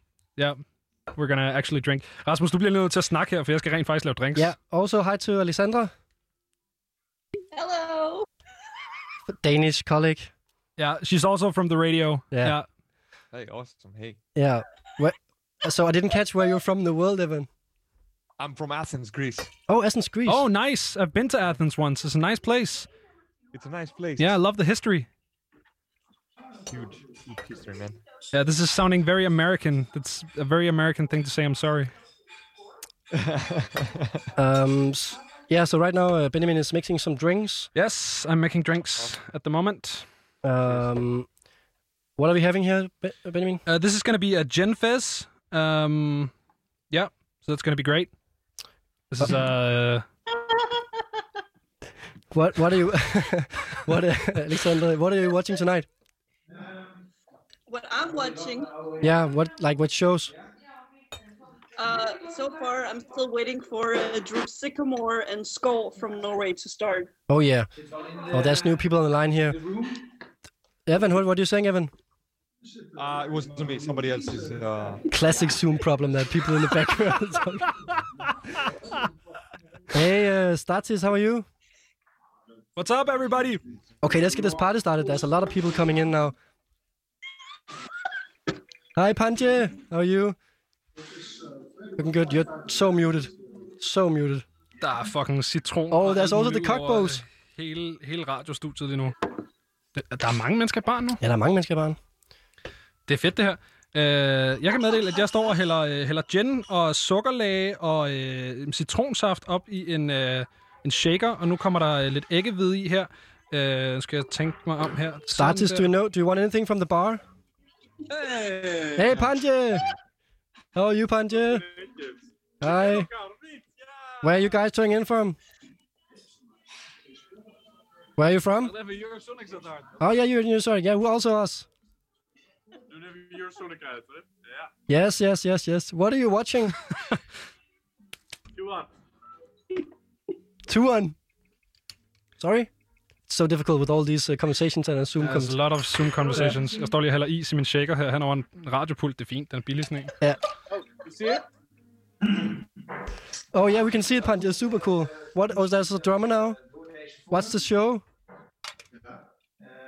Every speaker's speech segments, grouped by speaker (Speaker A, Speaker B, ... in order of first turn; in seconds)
Speaker A: 1.1-4.5, 10.8-12.7, 20.3-22.9, 24.2-25.1, 28.3-31.9, 37.7-40.1, 43.6-46.3, 46.9-48.1, 49.1-50.0, 82.8-83.6, 94.8-99.1, 100.0-101.2, 103.1-115.9, 145.2-150.1
Speaker B: 4.3-5.9, 9.3-10.3, 12.3-12.6, 14.3-17.5, 19.7-20.4, 34.4-37.7, 40.4-41.3, 42.2-43.6, 52.3-55.9, 59.0-60.3, 67.3-67.7, 68.3-69.6, 70.8-71.9, 75.1-77.8, 79.9-81.5, 84.0-86.3, 89.0-90.3, 92.0-94.4, 95.9-97.2, 101.2-102.0, 115.3-117.2, 118.9-119.8, 120.7-121.6, 122.6-123.1, 124.2-125.4, 128.2-128.8, 130.0-131.7, 134.9-136.8, 140.7-141.2, 142.4-142.7, 143.3-145.6, 153.5-156.6, 157.3-158.0
Speaker C: 7.5-8.3, 57.7-58.7, 61.8-67.1
Speaker D: 13.3-14.2, 18.4-19.5, 23.5-24.4, 26.6-28.0, 33.1-34.3, 73.0-75.0
Speaker E: 118.1-119.3, 121.3-124.3, 128.6-130.1, 132.9-134.7, 138.5-138.9, 150.7-151.4